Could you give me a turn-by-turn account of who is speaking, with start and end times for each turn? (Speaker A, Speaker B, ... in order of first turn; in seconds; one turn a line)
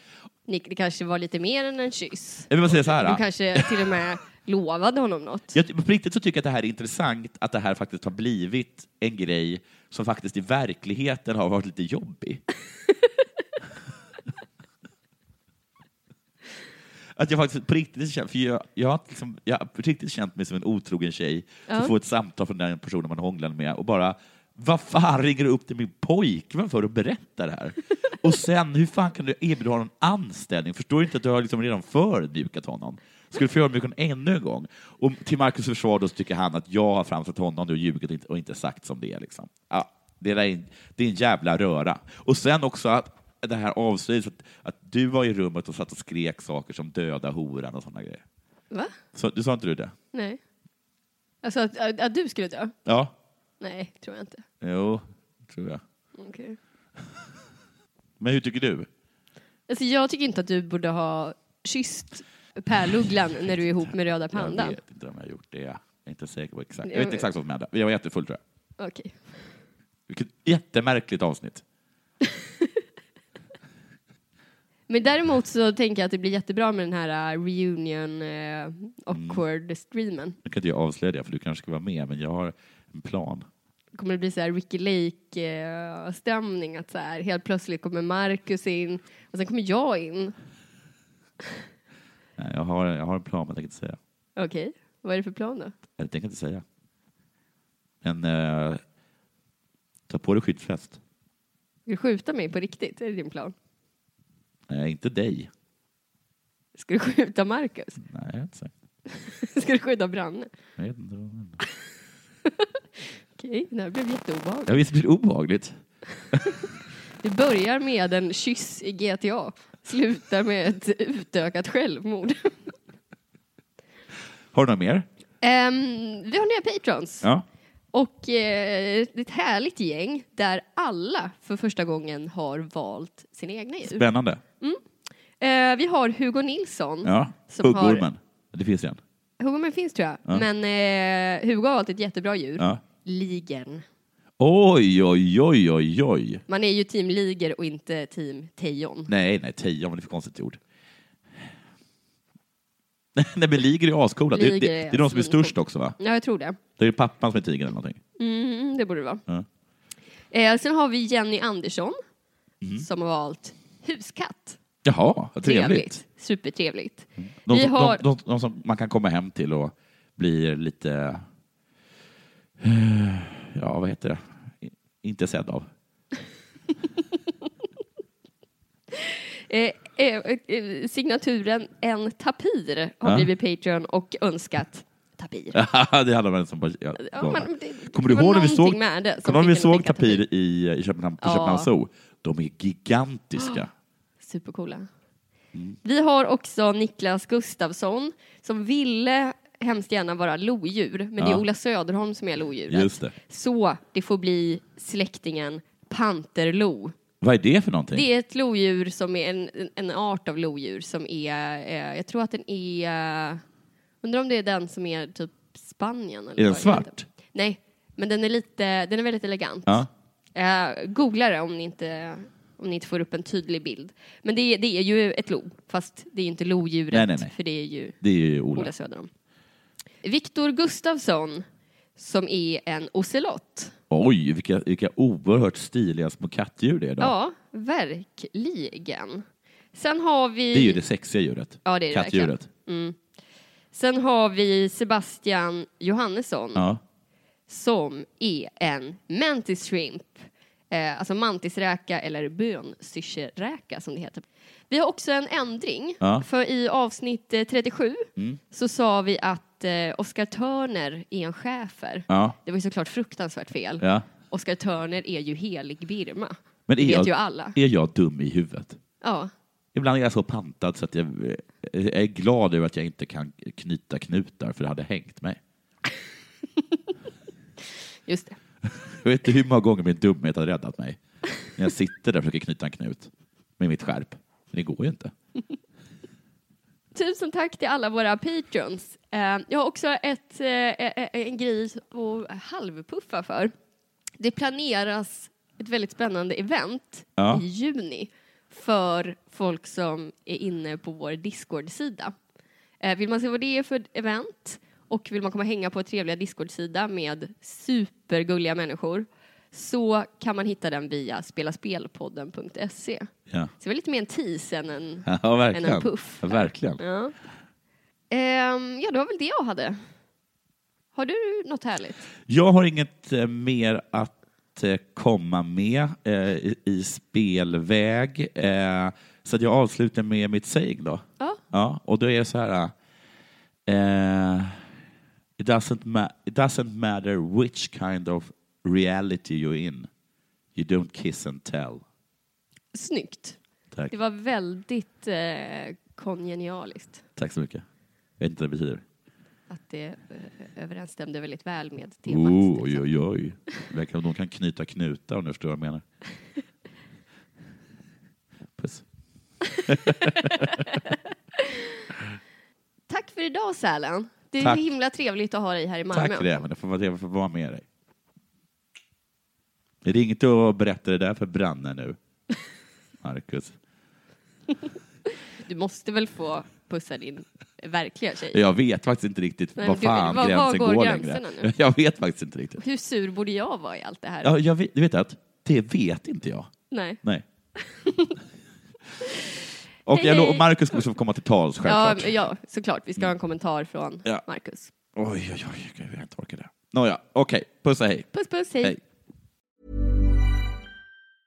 Speaker A: 0.5-5.6
Speaker B: 2.5-3.9
Speaker B: 5.5-12.4
Speaker B: 17.2-48.2
Speaker A: 21.7-21.9
Speaker B: 49.1-49.9
Speaker A: 50.1-50.4
Speaker A: 51.4-52.8
Speaker B: 52.9-53.1
Speaker A: 53.6-54.4
Speaker B: 54.6-55.8
Speaker A: 56.2-56.6
Speaker B: 58.2-58.9
Speaker A: 59.7-64.8
Speaker B: 64.3-68.4
Speaker A: 66.9-67.3
Speaker A: 68.8-69.5
Speaker B: 70.1-71.6
Speaker A: 74.9-80.4
Speaker B: 79.1-79.4
Speaker B: 80.4-83.5
Speaker A: 84.0-90.3
Speaker B: 92.4-94.0
Speaker A: 94.4-95.8
Speaker B: 96.0-96.6
Speaker B: 98.0-98.8
Speaker B: 100.1-101.0
Speaker A: 101.9-103.5
Speaker B: 104.7-105.5
Speaker A: 106.8-108.0
Speaker B: 108.0-108.7
Speaker A: 109.1-110.5
Speaker B: 110.8-111.6
Speaker A: 113.4-114.8
Speaker B: 114.7-115.8
Speaker A: 116.3-116.7
Speaker A: 117.2-122.6
Speaker B: 124.5-125.1
Speaker A: 125.4-127.3
Speaker A: 127.9-134.1
Speaker B: 133.8-134.4
Speaker A: 135.4-138.1
Speaker B: 137.0-139.0
Speaker A: 139.4-143.8
Speaker B: 144.4-146.4
Speaker A: 146.5-149.1
Speaker B: 149.1-150.6
Speaker B: 153.2-156.0
Speaker A: 154.3-156.6
Speaker B: 156.8-158.0
Speaker A: 158.2-159.2
Speaker A: 160.3-162.0
Speaker A: 162.8-164.6
Speaker B: 164.8-166.0
Speaker A: 165.4-168.0
Speaker B: 167.2-171.2
Speaker B: 172.6-175.7
Speaker A: 178.9-185.6
Speaker B: 183.1-183.3
Speaker B: 185.5-193.7
Speaker A: 187.0-190.2
Speaker A: 191.2-191.7
Speaker A: 194.2-194.9
Speaker A: 195.8-207.0
Speaker B: 201.2-201.4
Speaker B: 202.7-203.1
Speaker B: 207.2-208.1
Speaker A: 207.9-213.4
Speaker A: 214.0-228.0
Speaker B: 216.4-217.1
Speaker B: 226.9-227.3
Speaker B: 228.0-228.7
Speaker A: 228.5-229.1
Speaker A: 230.0-231.5
Speaker A: 232.0-233.7
Speaker B: 233.9-237.1
Speaker A: 237.0-240.8
Speaker B: 240.5-242.5
Speaker A: 241.7-243.0
Speaker A: 243.7-246.7
Speaker B: 246.6-246.8
Speaker A: 247.5-267.6
Speaker B: 262.1-262.4
Speaker B: 263.8-264.1
Speaker B: 266.7-268.8
Speaker A: 269.0-269.3
Speaker B: 269.8-275.4
Speaker A: 278.1-278.4
Speaker B: 278.9-283.1
Speaker B: 283.6-285.1
Speaker A: 286.9-293.5
Speaker A: 294.2-302.1
Speaker B: 297.2-297.4
Speaker A: 302.8-313.1
Speaker A: 313.6-317.1
Speaker B: 315.1-316.8
Speaker A: 318.1-319.8
Speaker A: 320.9-322.1
Speaker B: 322.3-332.7
Speaker B: 333.7-334.6
Speaker B: 335.4-339.9
Speaker B: 340.6-341.8
Speaker A: 342.7-343.4
Speaker A: 343.9-347.0
Speaker B: 347.2-347.6
Speaker B: 348.2-348.8
Speaker A: 349.5-352.9
Speaker B: 352.1-355.8
Speaker B: 358.6-358.8
Speaker B: 359.7-360.6
Speaker A: 360.0-361.6
Speaker A: 362.9-366.3
Speaker B: 365.9-367.6
Speaker B: 369.8-372.0
Speaker B: 373.0-373.6
Speaker A: 375.4-378.4
Speaker B: 378.3-382.6
Speaker A: 379.6-381.5
Speaker A: 382.6-384.3
Speaker B: 384.2-386.5
Speaker A: 386.7-387.0
Speaker A: 387.6-388.2
Speaker B: 389.9-392.2
Speaker A: 389.9-390.4
Speaker A: 391.7-394.7
Speaker B: 395.0-398.8
Speaker A: 398.1-398.8